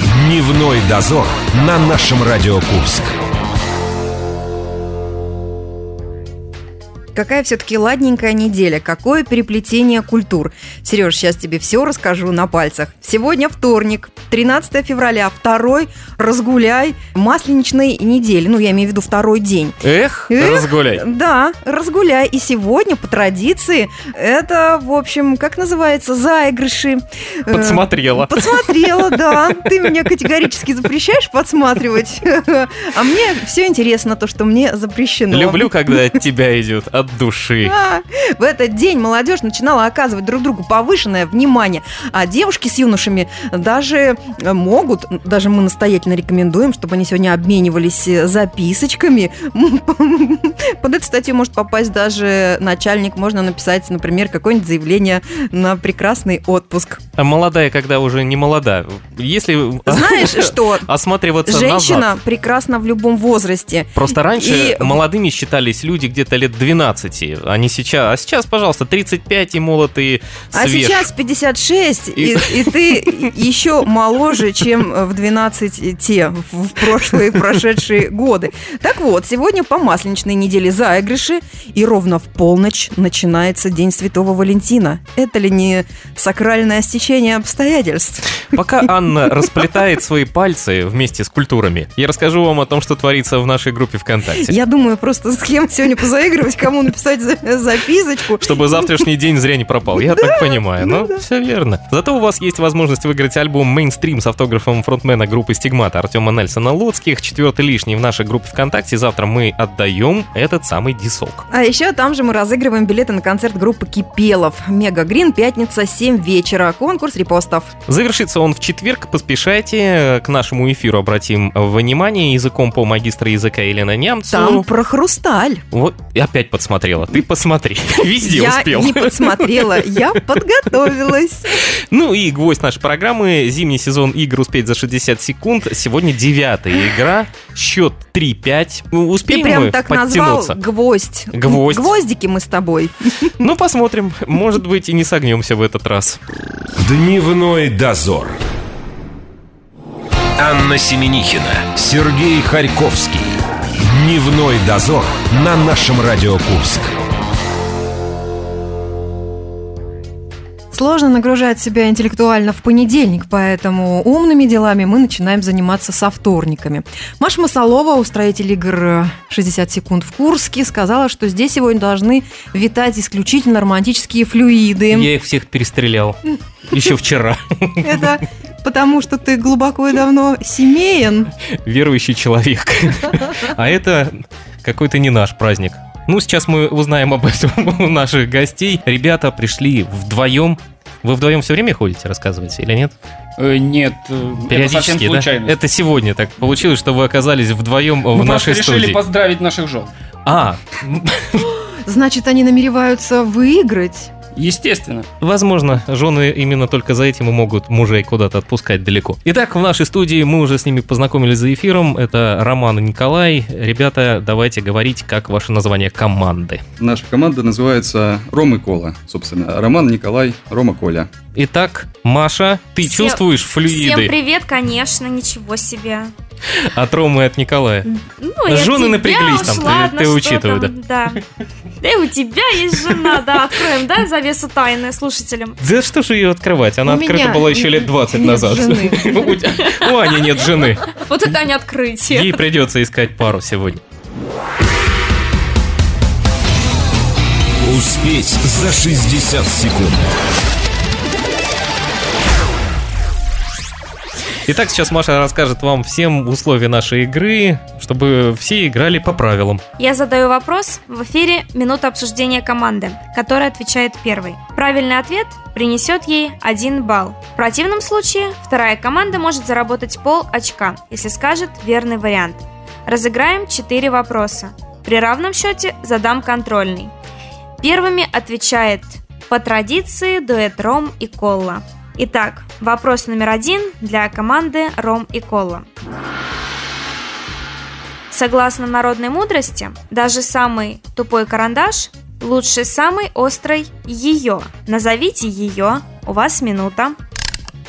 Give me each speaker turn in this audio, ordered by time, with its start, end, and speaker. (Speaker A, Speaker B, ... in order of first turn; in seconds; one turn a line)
Speaker A: 0.1-3.1
Speaker B: 2.0-2.3
Speaker C: 7.1-36.2
Speaker B: 19.8-21.0
Speaker B: 27.5-29.7
Speaker B: 35.3-37.7
Speaker C: 37.6-57.0
Speaker B: 57.2-62.1
Speaker C: 59.9-60.9
Speaker C: 61.4-65.0
Speaker B: 64.0-71.1
Speaker C: 70.5-88.9
Speaker B: 72.2-72.7
Speaker B: 88.5-94.5
Speaker C: 94.3-99.0
Speaker B: 98.4-111.4
Speaker C: 99.9-101.2
Speaker C: 111.5-117.7
Speaker B: 117.9-124.7
Speaker C: 124.3-125.6
Speaker B: 125.7-129.9
Speaker C: 128.2-131.6
Speaker B: 131.7-140.6
Speaker C: 139.2-143.4
Speaker B: 141.3-141.9
Speaker B: 143.4-146.2
Speaker A: 146.8-148.3
Speaker B: 146.8-148.2
Speaker A: 150.4-156.9
Speaker B: 150.4-153.2
Speaker B: 153.9-156.7
Speaker C: 160.7-175.1
Speaker B: 174.9-176.2
Speaker B: 176.7-178.1
Speaker C: 177.8-181.3
Speaker B: 181.6-192.9
Speaker D: 193.4-195.6
Speaker B: 194.5-199.0
Speaker D: 198.1-199.9
Speaker B: 200.2-201.6
Speaker C: 201.8-204.1
Speaker D: 204.3-205.1
Speaker B: 205.2-216.6
Speaker E: 216.8-221.1
Speaker B: 221.3-224.1
Speaker F: 222.8-226.1
Speaker B: 226.6-227.9
Speaker F: 228.2-231.2
Speaker B: 228.5-230.7
Speaker F: 231.8-235.6
Speaker B: 235.6-240.9
Speaker C: 236.8-239.3
Speaker F: 239.5-242.4
Speaker B: 242.1-243.8
Speaker A: 247.6-249.9
Speaker B: 247.7-249.8
Speaker B: 254.5-259.6
Speaker F: 259.8-276.9
Speaker F: 277.6-285.6
Speaker F: 288.1-296.9